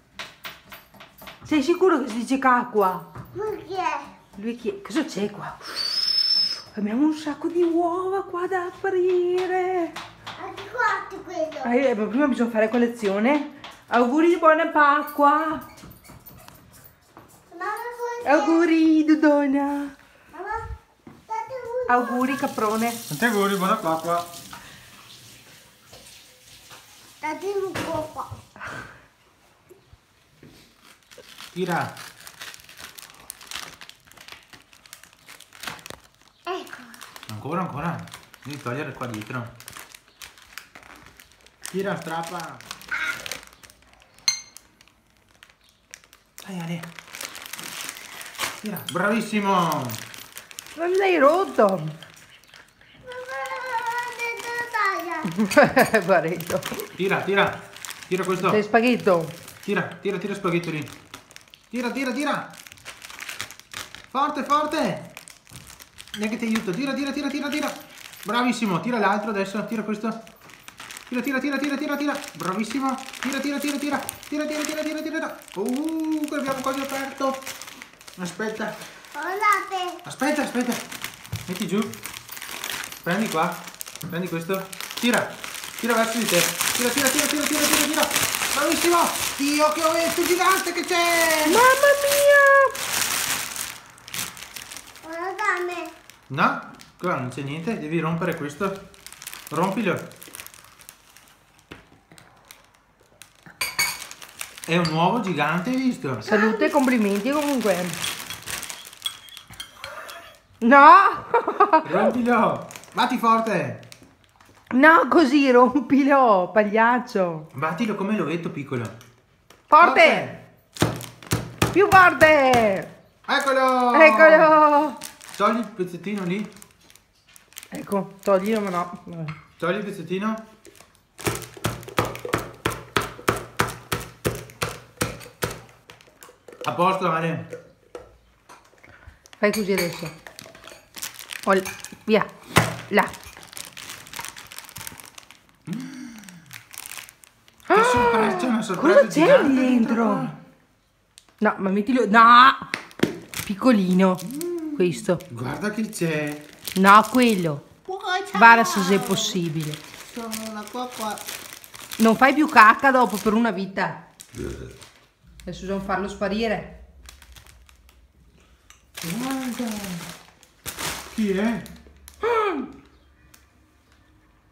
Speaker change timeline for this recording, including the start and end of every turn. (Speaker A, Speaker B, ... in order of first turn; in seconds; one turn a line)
Speaker A: 1.4-3.1
Speaker B: 3.3-4.1
Speaker A: 4.4-9.9
Speaker B: 10.4-11.7
Speaker A: 11.6-15.7
Speaker B: 17.5-18.7
Speaker A: 18.2-19.9
Speaker B: 20.3-20.6
Speaker B: 21.3-22.4
Speaker A: 21.9-23.0
Speaker C: 23.1-24.3
Speaker B: 27.2-28.3
Speaker C: 31.5-31.9
Speaker B: 36.5-36.9
Speaker C: 37.3-39.5
Speaker C: 41.7-42.6
Speaker C: 46.4-46.9
Speaker C: 48.6-50.0
Speaker A: 50.8-52.0
Speaker B: 53.0-55.3
Speaker A: 55.3-56.8
Speaker C: 57.0-58.6
Speaker A: 58.4-59.4
Speaker C: 59.6-60.9
Speaker C: 61.7-62.5
Speaker C: 64.1-65.1
Speaker C: 66.1-70.2
Speaker C: 71.1-77.5
Speaker C: 78.2-78.8
Speaker B: 79.2-80.0
Speaker C: 80.0-80.8
Speaker C: 81.5-82.0
Speaker C: 83.0-91.6
Speaker A: 91.5-92.7
Speaker B: 95.0-95.9
Speaker C: 96.3-98.8
Speaker C: 99.5-100.1
Speaker C: 104.7-106.3
Speaker A: 106.2-108.0
Speaker B: 106.3-106.7
Speaker A: 110.6-112.1
Speaker C: 111.8-113.8
Speaker A: 114.7-117.5
Speaker C: 117.5-119.0
Speaker A: 119.7-120.3
Speaker C: 119.8-120.4
Speaker A: 121.7-122.9
Speaker C: 123.3-124.6
Speaker A: 123.9-125.0
Speaker C: 125.3-126.5
Speaker A: 127.7-129.4
Speaker C: 129.6-130.4
Speaker C: 136.6-137.5
Speaker A: 139.4-140.1
Speaker A: 141.4-142.3
Speaker A: 142.9-143.2
Speaker C: 145.7-146.3
Speaker A: 147.7-150.3
Speaker C: 147.7-150.4
Speaker A: 151.4-152.7
Speaker A: 153.4-154.2
Speaker C: 154.2-156.5
Speaker A: 154.8-155.2
Speaker A: 156.8-157.7
Speaker C: 157.9-159.2
Speaker A: 158.3-159.8
Speaker C: 160.0-161.2
Speaker A: 162.0-164.1
Speaker C: 164.3-164.7
Speaker A: 165.4-166.8
Speaker C: 169.0-170.0
Speaker C: 171.1-171.7
Speaker A: 172.2-172.7